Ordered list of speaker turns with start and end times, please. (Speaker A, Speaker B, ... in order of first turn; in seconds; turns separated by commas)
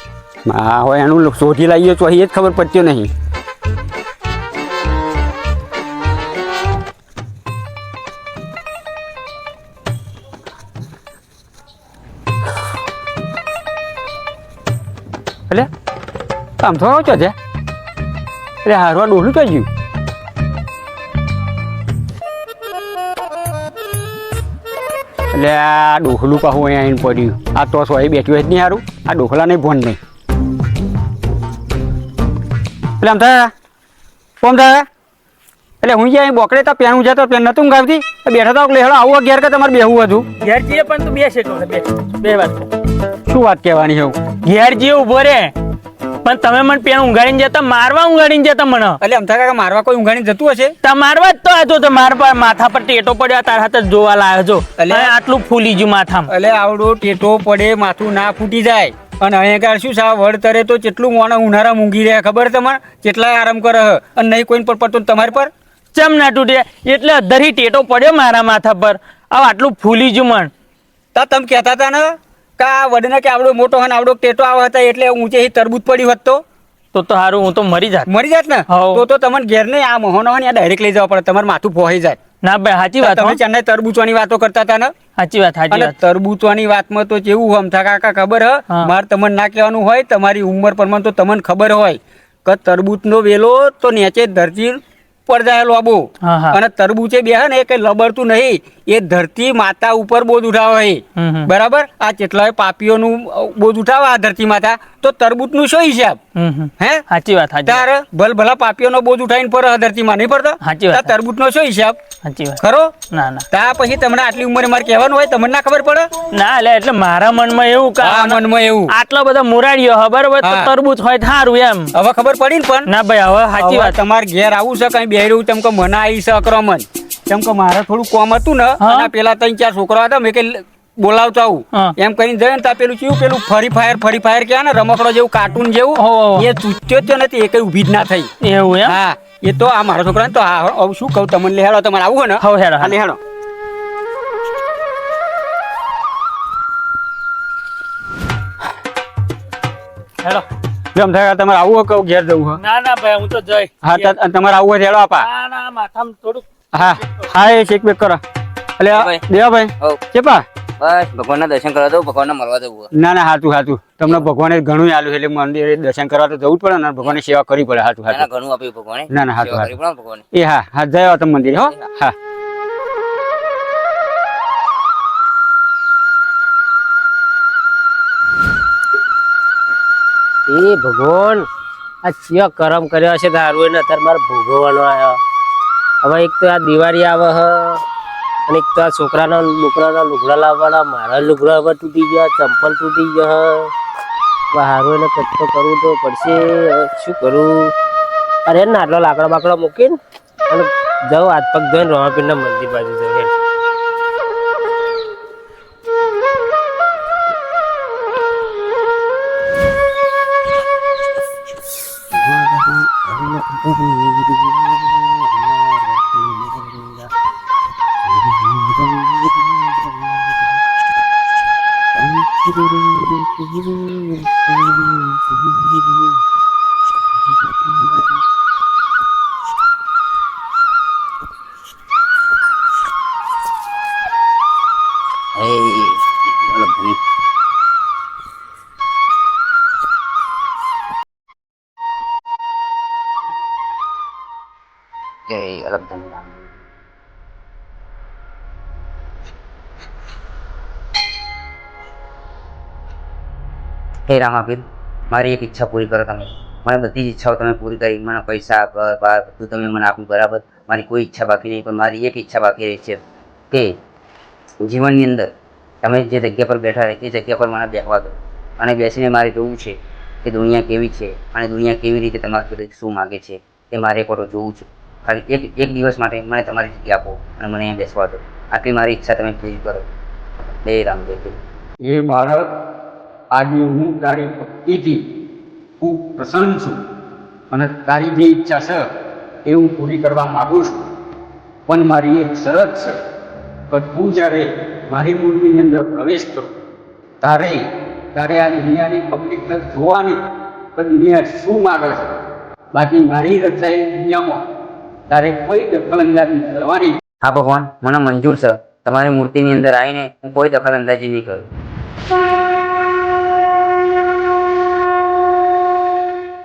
Speaker A: 0.5-3.1, Speaker A: 16.6-17.3, Speaker A: 18.6-19.7, Speaker A: 25.3-30.0, Speaker A: 33.0-33.5, Speaker A: 34.4-34.9, Speaker A: 35.8-40.2, Speaker B: 40.4-42.7, Speaker A: 43.3-44.2, Speaker B: 44.4-45.5, Speaker B: 46.2-49.0, Speaker A: 49.0-50.7, Speaker B: 50.8-56.3, Speaker A: 54.8-55.1, Speaker A: 56.3-65.5, Speaker B: 65.9-70.5, Speaker A: 71.1-76.4, Speaker B: 76.9-78.0, Speaker A: 78.1-82.2, Speaker B: 78.7-79.0, Speaker B: 82.4-83.4, Speaker A: 83.0-84.9, Speaker B: 85.2-85.9, Speaker A: 85.7-106.2, Speaker B: 96.2-96.6, Speaker B: 101.2-101.5, Speaker B: 106.3-107.8, Speaker A: 107.7-112.0, Speaker B: 110.6-111.1, Speaker B: 112.2-113.4, Speaker A: 112.6-112.9, Speaker A: 113.5-116.1, Speaker B: 116.3-121.9, Speaker A: 118.0-118.9, Speaker A: 120.4-120.7, Speaker A: 122.0-122.9, Speaker B: 122.8-124.0, Speaker A: 123.6-138.3, Speaker B: 128.8-129.1, Speaker B: 136.0-136.5, Speaker B: 138.4-138.9, Speaker A: 138.9-143.2, Speaker B: 142.4-142.9, Speaker A: 150.9-152.6, Speaker B: 152.6-154.2, Speaker A: 153.8-155.2, Speaker B: 155.2-156.4, Speaker A: 156.7-158.2, Speaker A: 158.8-160.4, Speaker C: 158.9-159.2, Speaker C: 160.8-162.9, Speaker A: 162.9-168.3, Speaker C: 168.1-170.2, Speaker A: 169.1-169.7, Speaker A: 170.3-172.1, Speaker D: 180.5-181.4, Speaker D: 182.0-185.2, Speaker D: 186.0-187.8, Speaker D: 188.5-193.7, Speaker D: 194.5-197.7, Speaker D: 198.5-203.3, Speaker C: 212.1-217.1, Speaker C: 218.1-220.1, Speaker C: 222.0-226.1, Speaker C: 235.3-237.0, Speaker C: 245.3-246.3, Speaker C: 254.1-263.0, Speaker C: 263.5-263.8, Speaker C: 264.6-265.3, Speaker C: 265.8-279.8, Speaker C: 280.6-281.4, Speaker A: 281.8-282.5, Speaker A: 283.3-285.1, Speaker A: 285.8-286.8, Speaker A: 287.5-288.8, Speaker A: 289.4-290.8, Speaker A: 291.7-293.0, Speaker A: 293.7-296.5, Speaker A: 297.2-300.2, Speaker A: 300.8-302.1, Speaker A: 302.7-304.4, Speaker A: 305.1-307.0, Speaker C: 307.2-311.4